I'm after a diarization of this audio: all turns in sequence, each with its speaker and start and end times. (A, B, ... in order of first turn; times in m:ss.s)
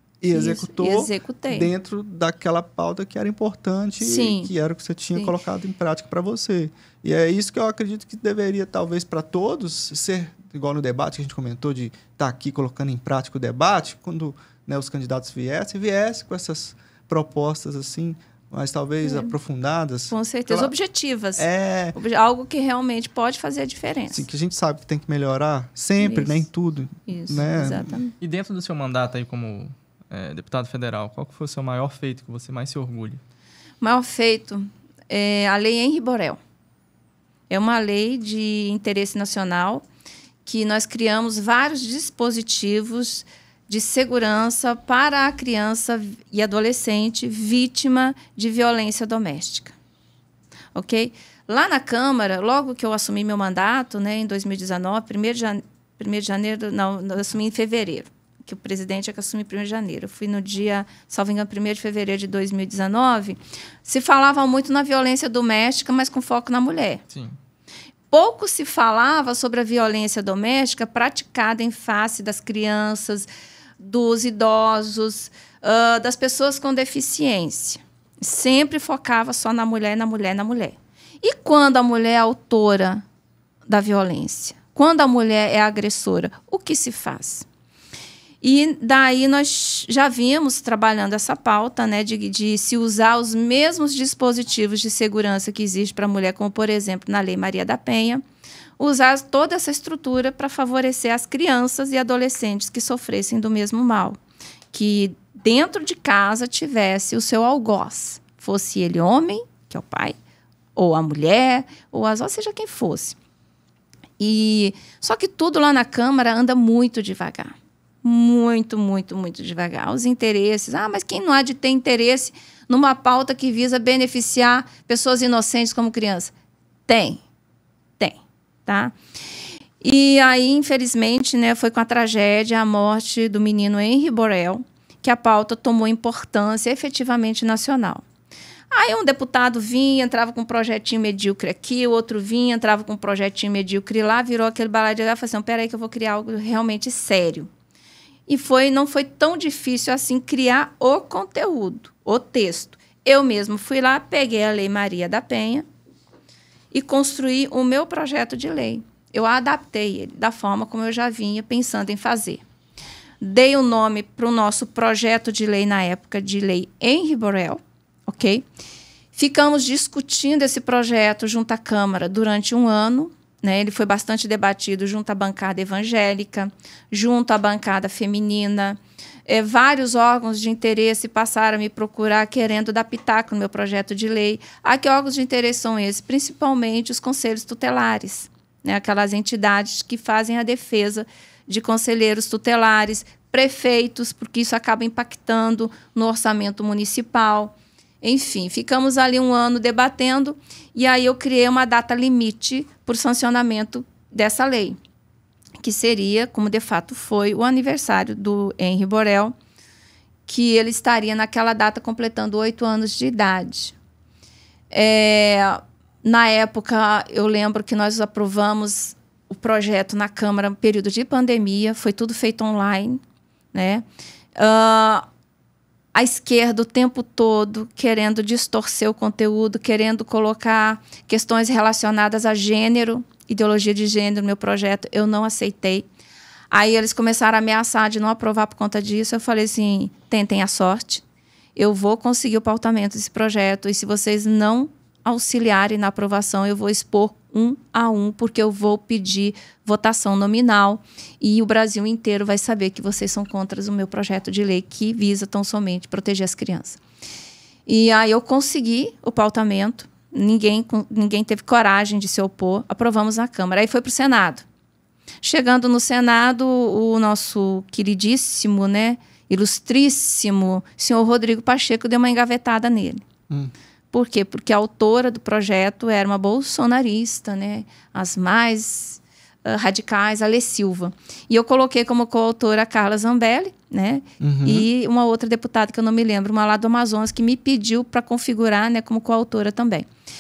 0:00.2-0:20.7 A
0:00.3-0:01.7 B
0:04.0-0:04.5 B
0:19.0-0:19.4 B
0:20.1-0:24.2 B
0:21.4-0:22.0 A
0:24.1-0:27.9 A
0:26.0-0:26.5 B
0:27.1-0:28.2 B
0:28.2-0:33.2 C
0:33.8-0:36.4 B
0:37.5-0:39.9 B
0:40.4-0:49.7 B
0:50.8-1:07.0 B
1:07.1-1:07.4 C
1:08.1-1:13.3 B
1:13.8-1:23.0 B
1:23.7-1:27.5 B
1:28.4-1:38.2 B
1:38.8-1:44.2 B
1:44.7-1:50.2 B
1:50.8-1:53.2 B
1:54.2-2:06.3 B
2:06.9-2:07.2 B
2:08.0-2:09.0 B
2:09.8-2:18.0 B
2:18.7-2:27.5 B
2:28.3-2:35.7 B
2:36.7-2:42.4 B
2:43.2-2:48.4 B
2:49.1-3:24.8 B
3:25.6-3:29.3 B
3:30.3-3:33.8 B
3:34.7-3:43.0 B
3:43.5-3:45.0 B
3:45.9-3:55.9 B
3:56.5-4:01.0 B
4:01.6-4:16.8 B
4:17.7-4:24.4 B
4:25.2-4:33.0 B
4:33.3-4:33.5 A
4:33.9-4:49.9 B
4:44.2-4:44.7 A